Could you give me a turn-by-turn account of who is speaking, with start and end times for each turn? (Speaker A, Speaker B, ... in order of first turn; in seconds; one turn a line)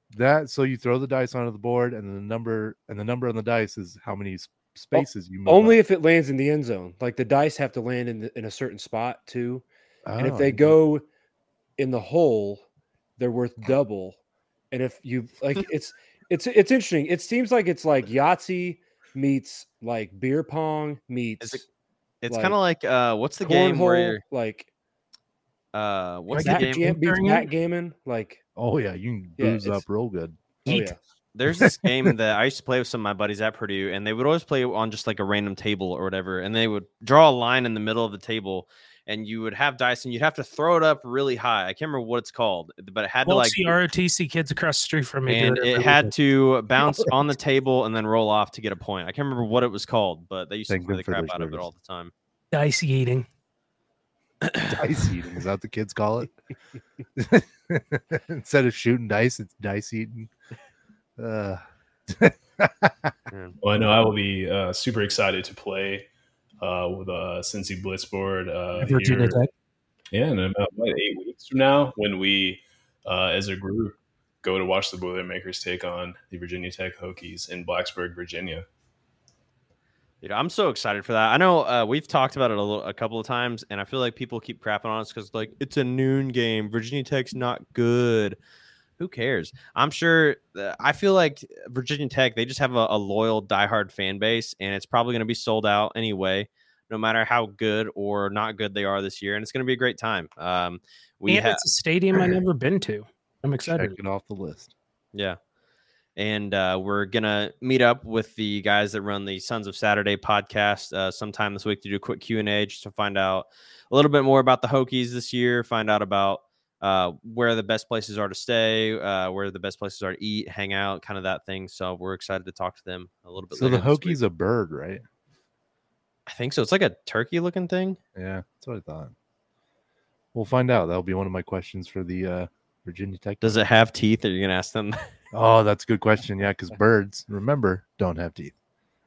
Speaker A: 0.1-5.8
Speaker B: 4.9-9.7
Speaker A: 10.1-10.8
Speaker B: 10.2-11.1
Speaker B: 11.8-12.7
Speaker B: 13.2-14.2
Speaker B: 14.7-21.7
Speaker C: 22.2-24.2
Speaker B: 22.3-22.6
Speaker B: 23.4-24.7
Speaker C: 25.7-26.9
Speaker D: 26.3-27.5
Speaker B: 26.4-28.4
Speaker A: 28.6-30.7
Speaker B: 29.4-29.8
Speaker B: 30.7-31.0
Speaker C: 31.4-43.8
Speaker D: 43.3-46.1
Speaker C: 45.3-52.1
Speaker A: 50.7-51.7
Speaker D: 52.5-53.3
Speaker A: 54.7-56.4
Speaker A: 57.2-60.3
Speaker A: 61.2-63.1
Speaker E: 63.6-66.1
Speaker E: 66.6-69.4
Speaker D: 68.8-69.5
Speaker E: 70.1-78.7
Speaker C: 80.2-88.4
Speaker C: 89.0-101.6
Speaker D: 101.3-104.0
Speaker A: 103.7-104.7
Speaker C: 106.2-124.2
Speaker A: 123.5-125.0
Speaker C: 126.3-128.0
Speaker A: 128.2-129.1
Speaker A: 130.3-133.6
Speaker C: 133.4-135.1
Speaker A: 135.3-138.5